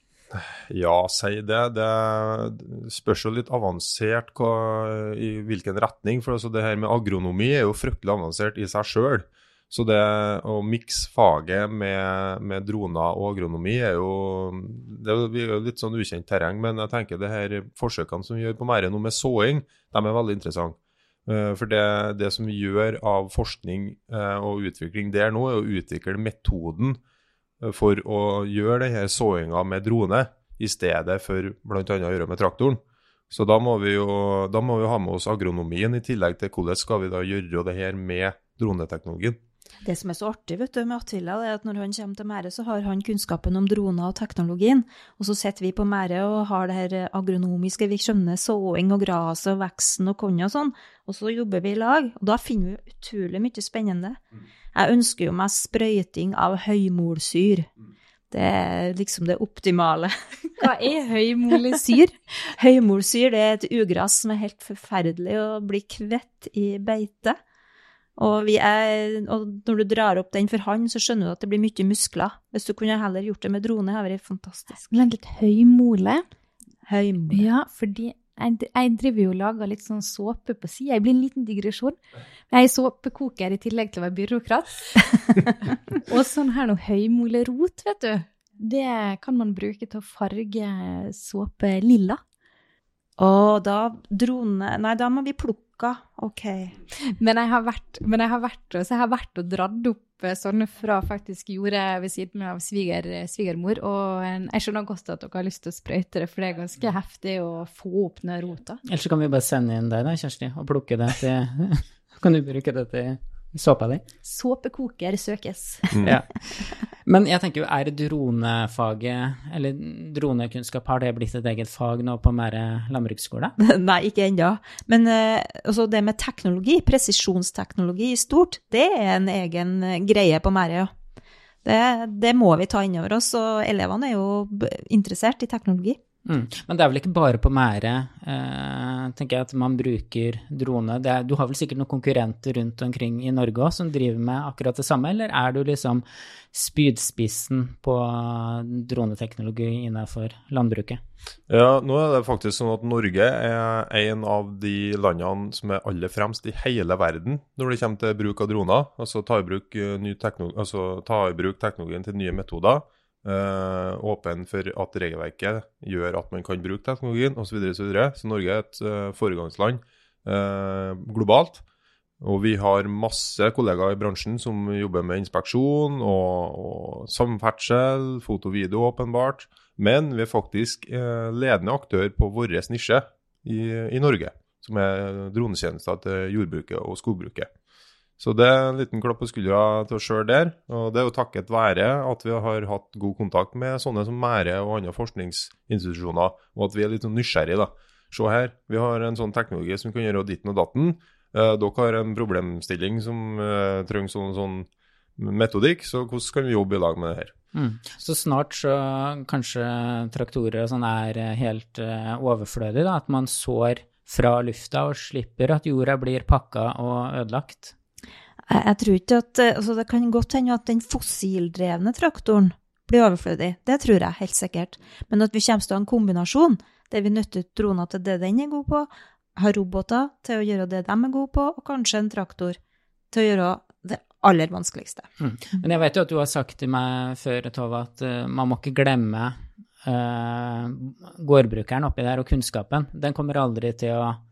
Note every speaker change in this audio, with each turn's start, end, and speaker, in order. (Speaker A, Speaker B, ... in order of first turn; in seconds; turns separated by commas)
Speaker A: 0.3-27.0, Speaker A: 27.6-39.4, Speaker B: 39.8-54.2, Speaker B: 54.7-57.7, Speaker B: 58.3-60.7, Speaker C: 60.6-62.1, Speaker B: 62.4-67.4, Speaker B: 68.2-74.9, Speaker C: 74.9-76.2, Speaker B: 76.9-77.5, Speaker C: 77.3-82.0, Speaker C: 82.5-85.0, Speaker C: 85.9-92.2, Speaker B: 93.2-96.8, Speaker C: 97.1-108.8, Speaker D: 108.9-114.0, Speaker C: 114.2-116.1, Speaker A: 115.9-116.2, Speaker D: 116.0-123.5, Speaker B: 123.6-130.9, Speaker B: 131.6-136.0, Speaker D: 136.3-151.0, Speaker A: 151.5-171.6, Speaker A: 172.2-187.5, Speaker A: 188.2-207.3, Speaker D: 207.5-217.7, Speaker B: 218.5-232.6, Speaker B: 233.1-235.1, Speaker D: 235.2-244.2